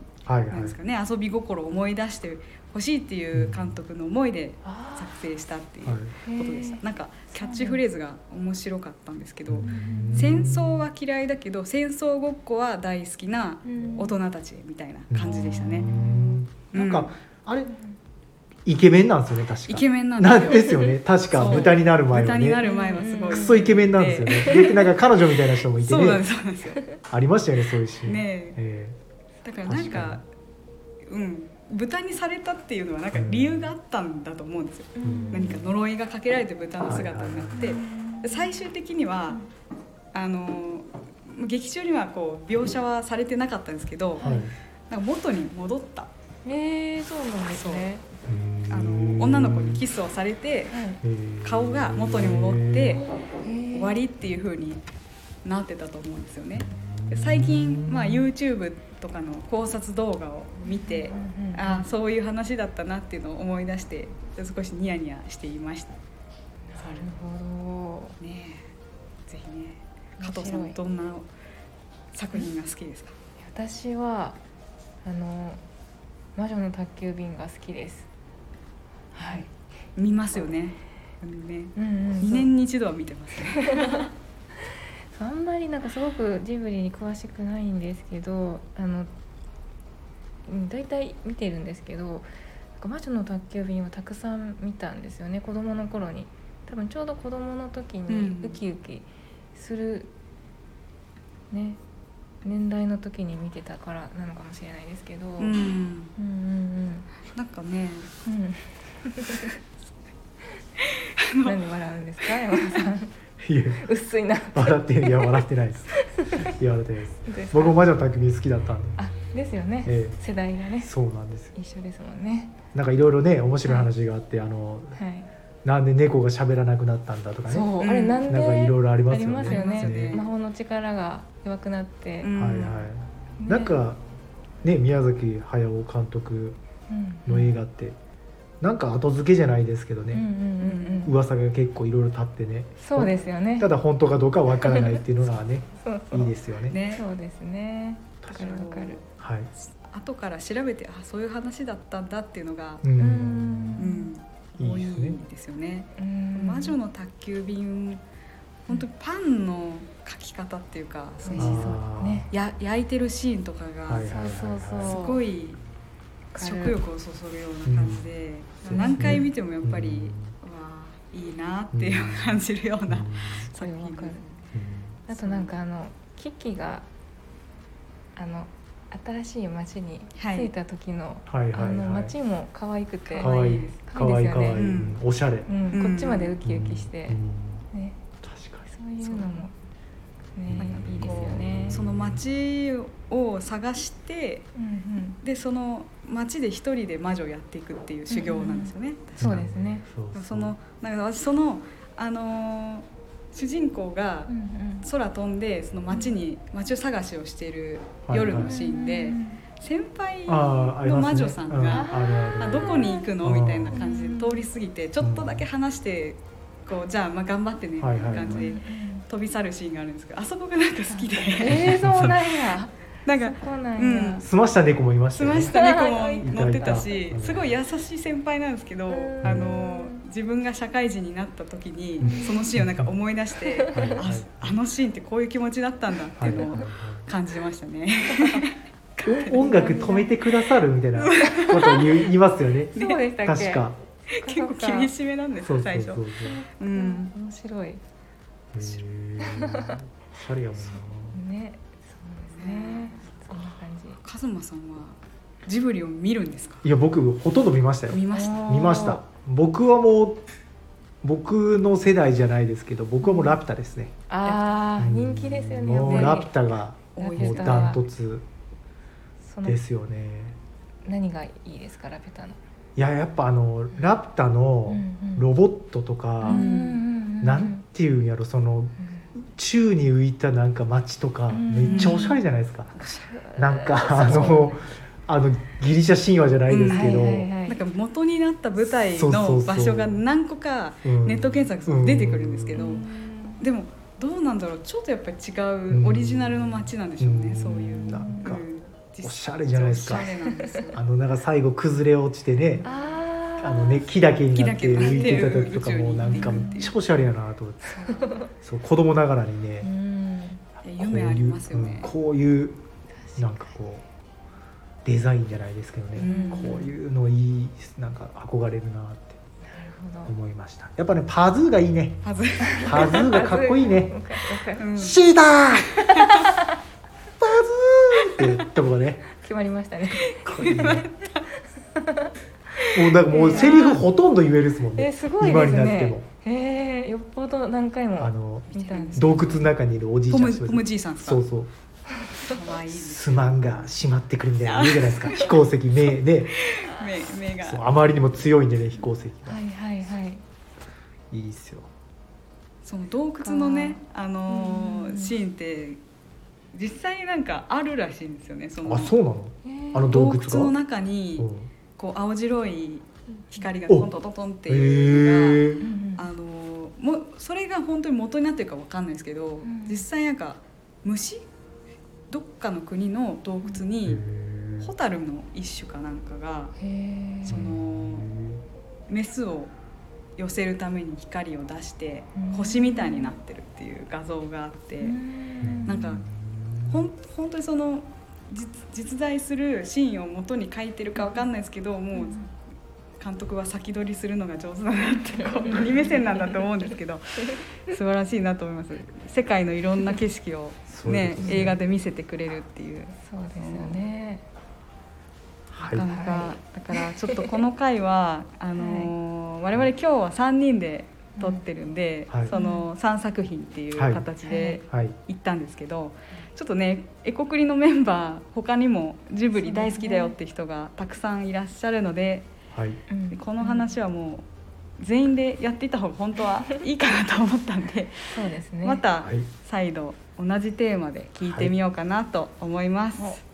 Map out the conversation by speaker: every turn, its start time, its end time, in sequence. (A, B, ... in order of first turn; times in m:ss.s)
0:00.2-0:00.7 A
0:00.5-0:15.9 B
0:03.3-0:03.7 A
0:04.6-0:05.2 C
0:05.8-0:06.2 A
0:06.2-0:07.8 C
0:09.5-0:10.8 A
0:09.6-0:10.5 C
0:13.6-0:14.2 C
0:15.1-0:17.7 A
0:15.2-0:16.4 C
0:16.7-0:17.1 B
0:17.7-0:17.9 C
0:18.6-0:22.7 A
0:19.7-0:26.8 B
0:20.7-0:21.8 C
0:22.6-0:23.7 C
0:23.3-0:26.2 A
0:24.4-0:24.8 C
0:26.6-0:27.0 C
0:27.1-0:29.0 A
0:28.0-0:28.6 B
0:29.4-0:30.2 B
0:29.6-0:30.2 A
0:31.1-0:39.4 B
0:33.1-0:33.7 A
0:35.0-0:35.7 C
0:35.0-0:35.6 A
0:36.8-0:37.7 A
0:37.6-0:38.6 C
0:40.1-0:44.2 B
0:44.2-0:44.5 C
0:44.2-0:44.5 A
0:44.9-0:46.1 B
0:46.4-0:48.0 C
0:47.5-0:47.9 B
0:48.3-0:49.8 A
0:48.7-0:50.8 B
0:50.7-0:51.0 C
0:51.0-0:53.0 A
0:51.4-0:53.0 B
0:53.0-0:54.0 C
0:53.7-0:54.8 B
0:55.4-1:05.9 B
0:56.6-0:58.3 A
1:00.6-1:01.9 C
1:06.7-1:08.1 C
1:06.8-1:07.1 B
1:08.2-1:08.7 B
1:09.3-1:11.3 B
1:10.2-1:10.8 C
1:12.1-1:13.1 B
1:13.4-1:14.4 C
1:15.0-1:15.6 C
1:16.3-1:18.1 C
1:19.1-1:19.5 C
1:20.0-1:24.1 B
1:21.8-1:22.5 C
1:23.6-1:24.0 C
1:25.1-1:29.1 C
1:30.4-1:32.3 C
1:32.8-1:40.1 C
1:38.1-1:38.6 B
1:41.5-1:41.8 C
1:42.4-1:45.6 C
1:45.4-1:46.1 B
1:46.1-1:47.1 C
1:47.3-1:48.1 B
1:48.2-1:49.6 C
1:51.2-1:51.6 B
1:51.4-1:53.2 C
1:52.2-1:52.8 B
1:53.4-1:53.9 A
1:53.7-1:56.6 C
1:54.5-1:59.0 A
1:57.2-1:57.8 C
1:59.0-2:00.9 C
1:59.8-2:00.2 A
2:00.8-2:01.5 A
2:01.5-2:02.6 C
2:02.7-2:05.0 A
2:03.6-2:03.9 C
2:04.9-2:05.3 C
2:05.6-2:07.7 A
2:07.5-2:12.3 C
2:07.8-2:08.4 B
2:08.2-2:10.2 A
2:09.4-2:10.3 B
2:12.2-2:12.9 B
2:12.3-2:14.0 A
2:13.4-2:13.8 C
2:14.6-2:16.6 A
2:16.9-2:17.5 C
2:17.2-2:18.0 A
2:18.6-2:20.3 A
2:20.1-2:21.1 C
2:20.6-2:21.1 B
2:21.0-2:26.8 A
2:22.8-2:23.7 C
2:24.5-2:25.1 C
2:25.7-2:26.4 C
2:26.7-2:27.0 B
2:26.9-2:29.0 C
2:28.3-2:29.0 B
2:29.2-2:29.5 A
2:29.6-2:32.8 B
2:32.8-2:33.8 A
2:32.9-2:34.1 C
2:33.8-2:38.0 B
2:34.6-2:35.2 A
2:35.9-2:36.8 C
2:38.6-2:41.7 B
2:41.2-2:42.3 C
2:41.4-2:42.2 A
2:42.3-2:44.1 B
2:43.9-2:45.0 A
2:44.0-2:45.2 C
2:44.8-2:45.6 B
2:46.3-2:46.8 C
2:46.4-2:54.4 B
2:47.6-2:48.1 A
2:48.6-2:50.3 A
2:48.7-2:49.3 C
2:51.7-2:53.4 A
2:53.4-2:54.2 C
2:54.5-2:55.0 A
2:55.1-2:56.9 C
2:55.1-2:55.5 B
2:58.1-3:04.8 C
3:00.2-3:00.5 B
3:01.3-3:02.1 A
3:03.0-3:03.8 B
3:03.2-3:05.5 A
3:04.5-3:05.0 B
3:05.4-3:07.2 C
3:05.7-3:06.4 B
3:06.4-3:07.6 A
3:07.7-3:08.0 C
3:08.2-3:08.7 A
3:08.6-3:09.5 C
3:09.0-3:09.5 B
3:10.4-3:11.9 C
3:10.4-3:12.2 A
3:10.6-3:14.5 B
3:14.5-3:15.2 C
3:15.2-3:19.4 B
3:18.1-3:19.9 C
3:19.2-3:20.5 A
3:20.1-3:42.3 B
3:24.3-3:24.9 C
3:28.1-3:28.5 A
3:28.3-3:29.4 C
3:30.3-3:33.8 A
3:31.7-3:33.1 C
3:33.7-3:34.5 C
3:35.0-3:35.4 A
3:37.8-3:38.5 A
3:38.0-3:39.1 C
3:40.9-3:44.3 C
3:41.4-3:42.2 A
3:43.0-3:44.2 B
3:44.2-3:45.5 A
3:45.1-3:59.6 B
3:45.5-3:47.0 C
3:46.2-3:47.5 A
3:48.9-3:50.0 C
3:49.2-3:49.6 A
3:52.0-3:52.6 C
3:52.0-3:52.9 A
3:53.4-3:54.0 C
3:53.7-3:54.5 A
3:56.2-3:57.0 A
3:58.1-3:58.4 C
3:59.0-4:03.8 A
3:59.4-4:00.1 C
4:01.0-4:01.9 B
4:01.4-4:01.8 C
4:02.7-4:04.9 C
4:02.7-4:03.0 B
4:04.1-4:06.0 B
4:05.4-4:06.4 A
4:06.2-4:07.8 C
4:06.6-4:07.1 B
4:08.5-4:11.2 A
4:09.2-4:09.8 C
4:11.1-4:14.0 C
4:12.3-4:16.6 B
4:16.6-4:20.2 A
4:17.9-4:18.8 B
4:18.1-4:19.0 C
4:21.0-4:23.9 A
4:23.0-4:23.4 C
4:24.1-4:26.4 C
4:24.2-4:24.6 B
4:24.7-4:28.2 A
4:25.8-4:26.2 B
4:26.9-4:27.8 B
4:27.0-4:27.8 C
4:29.2-4:29.6 C
4:29.4-4:30.4 A
4:30.8-4:32.4 C
4:32.8-4:36.5 A
4:33.7-4:34.0 C
4:34.7-4:35.3 C
4:36.2-4:37.6 C
4:36.3-4:36.8 B
4:37.2-4:42.8 A
4:38.8-4:39.1 C
4:41.3-4:42.2 C
4:41.6-4:42.0 B
4:42.8-4:44.7 C
4:43.3-4:47.3 A
4:46.5-4:52.9 B
4:46.6-4:47.6 C
4:48.9-4:50.0 A
4:50.8-4:52.8 A
4:52.5-4:53.4 C
4:53.4-5:00.8 B
4:55.7-4:58.4 A
4:57.6-4:58.4 C
4:59.0-5:00.1 A
5:00.1-5:00.7 C
5:00.7-5:02.7 A
5:02.6-5:04.0 C
5:03.4-5:07.7 A
5:04.3-5:06.8 B
5:04.8-5:06.7 C
5:07.7-5:08.2 B
5:07.8-5:08.3 C
5:08.3-5:09.7 A
5:09.6-5:10.4 C
5:10.6-5:11.9 B
5:10.8-5:12.6 A
5:12.9-5:13.6 C
5:13.2-5:13.8 A
5:14.8-5:19.2 A
5:16.0-5:16.6 B
5:16.0-5:16.7 C
5:19.4-5:20.1 C
5:20.0-5:22.0 A
5:22.0-5:23.0 B
5:22.4-5:24.8 C
5:22.6-5:23.9 A
5:24.6-5:25.0 B
5:24.8-5:25.8 A
5:25.8-5:26.3 B
5:25.8-5:26.5 C
5:27.2-5:29.0 A
5:28.0-5:28.5 B
5:29.0-5:33.8 C
5:30.0-5:31.2 B
5:30.3-5:30.8 A
5:32.7-5:36.0 A
5:33.1-5:33.8 B
5:34.7-5:39.5 C
5:38.0-5:41.5 A
5:38.5-5:39.4 B
5:40.1-5:41.2 B
5:41.9-5:42.2 C
5:42.2-5:43.7 B
5:42.7-5:46.4 A
5:44.4-5:45.4 B
5:46.3-5:48.1 B
5:47.4-5:49.4 A
5:49.2-5:50.2 C
5:51.1-5:51.7 A
5:52.6-5:55.8 B
5:53.2-5:55.2 C
5:56.5-5:58.9 B
5:58.6-6:00.5 A
5:59.4-5:59.9 C
5:59.8-6:11.2 B
6:01.2-6:01.5 A
6:04.5-6:05.6 A
6:05.6-6:06.1 C
6:09.4-6:09.8 C
6:12.1-6:14.0 B
6:13.8-6:14.7 A
6:14.6-6:16.5 B
6:16.6-6:17.4 C
6:17.2-6:18.1 B
6:17.3-6:18.4 A
6:18.9-6:19.5 B
6:20.2-6:25.0 B
6:22.2-6:23.2 C
6:24.8-6:26.0 C
6:25.4-6:26.8 A
6:25.6-6:26.0 B
6:26.7-6:32.2 B
6:31.0-6:31.2 C
6:31.9-6:32.3 C
6:33.0-6:43.9 B
6:35.2-6:36.4 C
6:40.7-6:41.5 A
6:41.2-6:41.5 C
6:42.9-6:44.2 C
6:45.5-6:45.8 A
6:45.6-6:47.4 C
6:45.6-7:02.3 B
6:48.5-6:48.9 C
6:51.2-6:51.4 C
6:52.1-6:52.3 A
6:52.3-6:52.7 C
6:53.8-6:54.0 A
6:54.2-6:54.6 C
6:54.7-6:55.0 A
6:59.4-7:00.2 C
7:02.5-7:02.8 A
7:02.9-7:03.7 C
7:03.1-7:04.2 B
7:04.8-7:13.2 B
7:08.0-7:08.8 C
7:09.0-7:09.3 A
7:11.2-7:11.5 A